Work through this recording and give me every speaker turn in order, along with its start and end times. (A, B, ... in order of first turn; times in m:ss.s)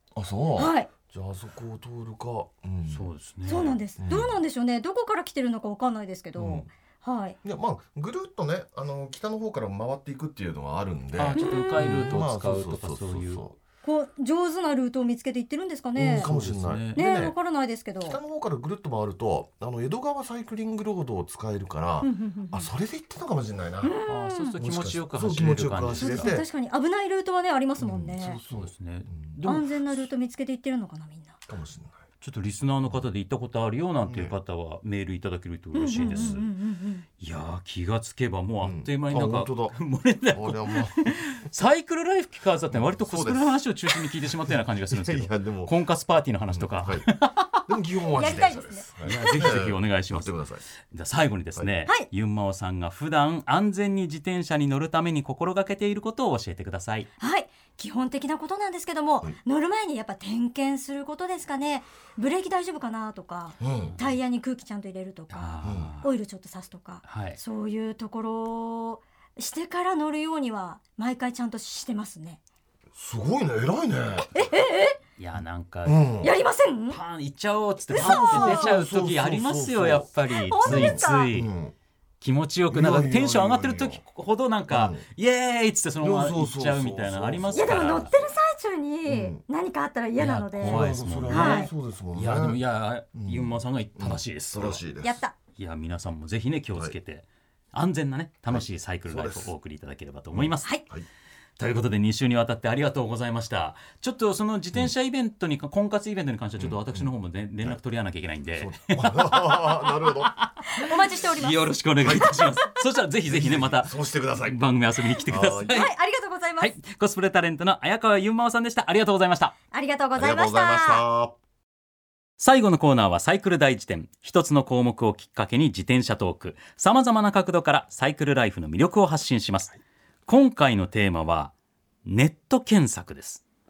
0:00.1-0:04.4 A
0:00.6-0:00.9 B
0:02.9-0:03.8 C
0:03.5-0:07.4 B
0:06.4-0:06.7 A
0:07.4-0:13.6 A
0:11.2-0:13.4 C
0:11.4-0:11.9 B
0:13.8-0:16.3 B
0:15.9-0:17.4 A
0:16.2-0:17.0 C
0:16.9-0:18.2 B
0:18.0-0:24.0 A
0:22.0-0:22.7 B
0:23.8-0:24.6 B
0:24.1-0:26.4 C
0:24.6-0:26.4 A
0:26.0-0:28.4 B
0:27.8-0:29.3 A
0:28.4-0:30.0 C
0:29.4-0:31.4 B
0:31.5-0:32.0 A
0:32.2-0:36.5 C
0:34.0-0:34.3 A
0:35.7-0:37.0 B
0:36.0-0:36.4 A
0:37.2-0:47.6 C
0:38.6-0:41.1 A
0:42.7-0:43.6 A
0:44.9-0:45.7 A
0:46.5-0:47.0 A
0:47.7-0:50.6 A
0:48.1-0:49.4 B
0:49.0-0:50.3 C
0:50.9-0:57.1 C
0:57.2-1:12.4 B
1:03.6-1:04.0 A
1:03.8-1:04.2 C
1:05.3-1:06.1 C
1:05.6-1:05.9 A
1:07.0-1:07.4 C
1:12.9-1:14.4 A
1:14.3-1:15.0 B
1:15.2-1:16.0 C
1:15.8-1:16.3 A
1:16.2-1:17.0 B
1:16.9-1:21.5 C
1:17.9-1:21.7 A
1:17.9-1:18.7 B
1:20.3-1:21.3 B
1:22.2-1:28.2 C
1:22.7-1:24.0 A
1:24.7-1:25.0 A
1:26.0-1:28.1 A
1:27.5-1:31.7 B
1:29.0-1:29.4 A
1:30.2-1:34.8 C
1:30.6-1:32.6 A
1:33.1-1:35.2 A
1:35.0-1:35.3 B
1:35.6-1:40.8 C
1:38.5-1:39.5 A
1:40.3-1:41.1 A
1:41.6-1:55.9 C
1:46.6-1:47.1 A
1:48.6-1:50.3 A
1:50.7-1:51.6 B
1:52.0-1:52.4 A
1:52.1-1:52.4 B
1:53.3-1:54.6 A
1:55.2-1:55.9 A
1:55.7-1:56.7 B
1:56.6-1:59.5 C
1:59.7-2:01.0 B
2:00.2-2:01.4 A
2:02.4-2:11.5 C
2:12.0-2:13.4 C